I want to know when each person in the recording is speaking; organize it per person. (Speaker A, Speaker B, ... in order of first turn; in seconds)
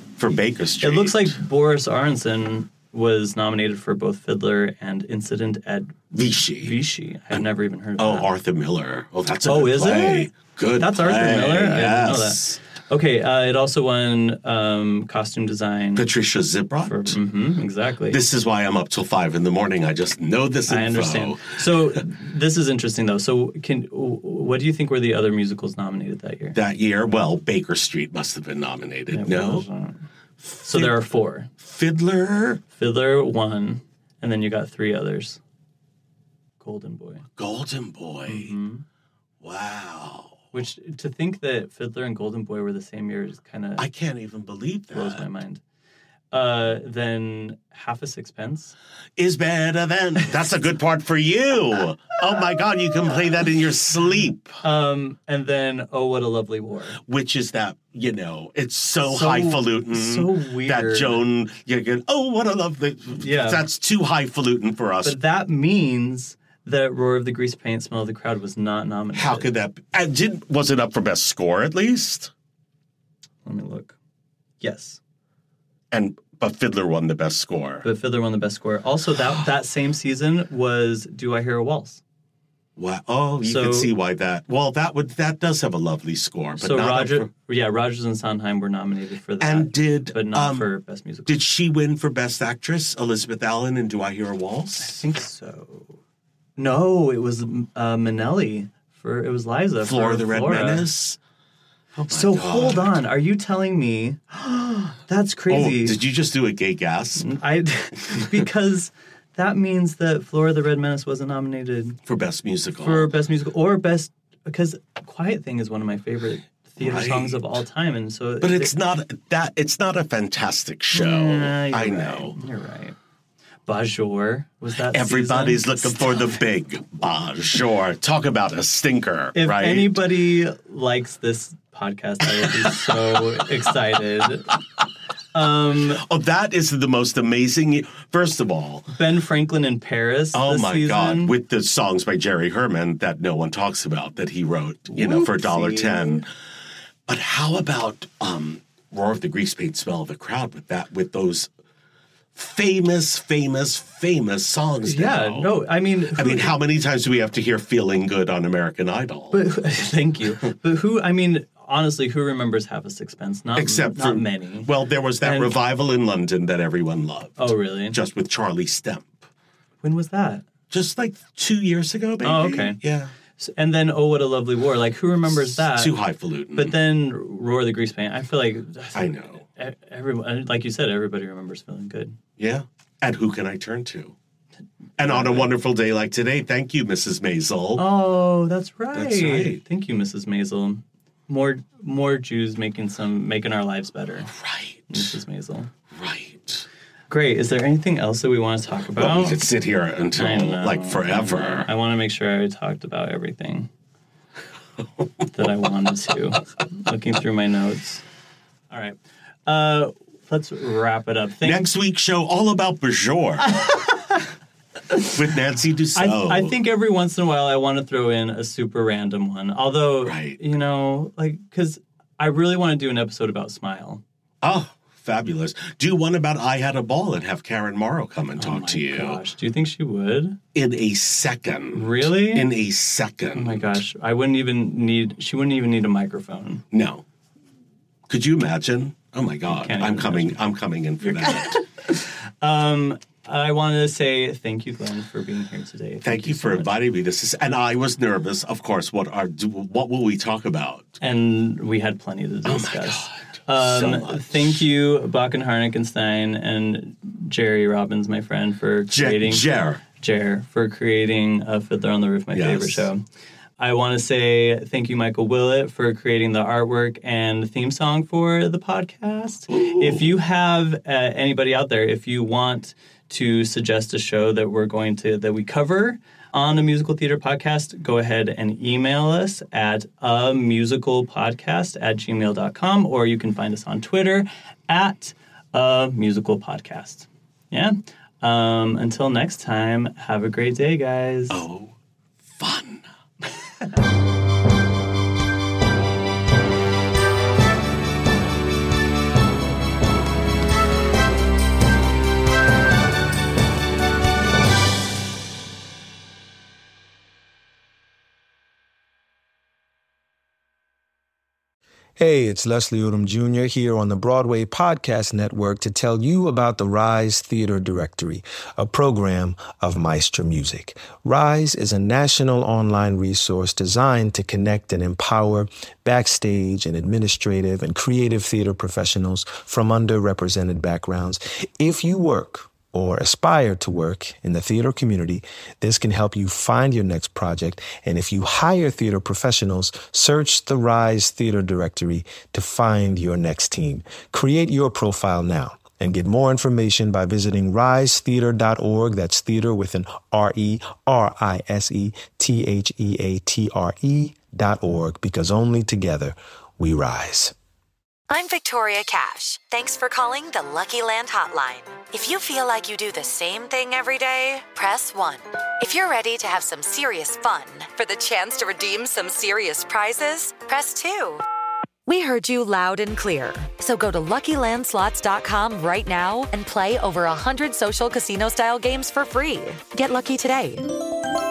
Speaker A: 0.2-1.4, 6.1-6.8, 8.0-12.6, 15.9-17.2, 18.1-21.6, 26.5-29.7, 30.4-31.0, 31.6-32.6, 37.4-38.5, 39.4-40.5, 43.8-45.2, 49.2-54.6, 57.0-65.2, 69.1-72.3, 75.9-77.8, 82.8-87.3, 89.4-90.7, 91.2-95.0, 99.8-101.2, 101.9-103.0, 105.5-107.3, 112.0-113.1, 116.8-117.6, 118.4-122.4, 124.9-130.0, 132.3-132.8, 135.9-138.9, 140.3-146.3, 147.1-151.5, 152.3-155.5, 156.1-159.4, 163.6-169.2, 170.7-173.1, 175.3-176.8, 178.9-179.4, 182.4-184.1, 185.0-187.8, 188.9-189.6, 194.3-195.1, 195.9-196.7, 198.9-201.7, 211.4-213.5, 215.0-216.5, 220.0-220.4, 224.4-229.2, 230.5-233.8, 236.7-237.0, 238.1-241.6, 246.0-251.0, 252.4-254.6, 258.9-259.8, 262.3-262.9, 269.5-270.1, 291.3-291.7, 292.4-292.9
Speaker B: 0.8-8.3, 9.4-16.1, 16.8-18.2, 20.7-26.6, 29.1-30.1, 30.6-31.5, 32.7-35.4, 36.6-37.3, 38.3-38.8, 40.5-43.9, 44.9-45.6, 46.3-48.7, 54.6-57.0, 59.0-61.2, 63.2-63.6, 65.0-69.5, 73.4-74.0, 74.6-75.0, 77.8-82.0, 83.4-83.9, 86.6-91.3, 94.8-96.0, 96.6-100.9, 102.1-106.0, 107.2-112.0, 112.8-118.7, 120.9-123.0, 123.7-126.4, 129.3-134.6, 135.3-136.0, 138.9-141.3, 144.9-146.2, 154.8-156.6, 159.3-164.7, 165.2-165.5, 167.4-168.0, 169.8-170.4, 172.2-172.8, 173.4-175.9, 176.5-182.2, 185.0-185.5, 187.8-194.3, 194.9-195.7, 197.1-199.4, 200.1-203.7, 205.3-208.0, 208.7-211.7, 213.5-214.2, 215.9-224.0, 228.4-230.3, 231.7-232.5, 233.3-236.6, 239.5-240.4, 241.0-246.7, 251.0-263.0, 263.6-291.4
Speaker C: 312.0-357.3
Speaker D: 358.1-371.2, 371.9-380.7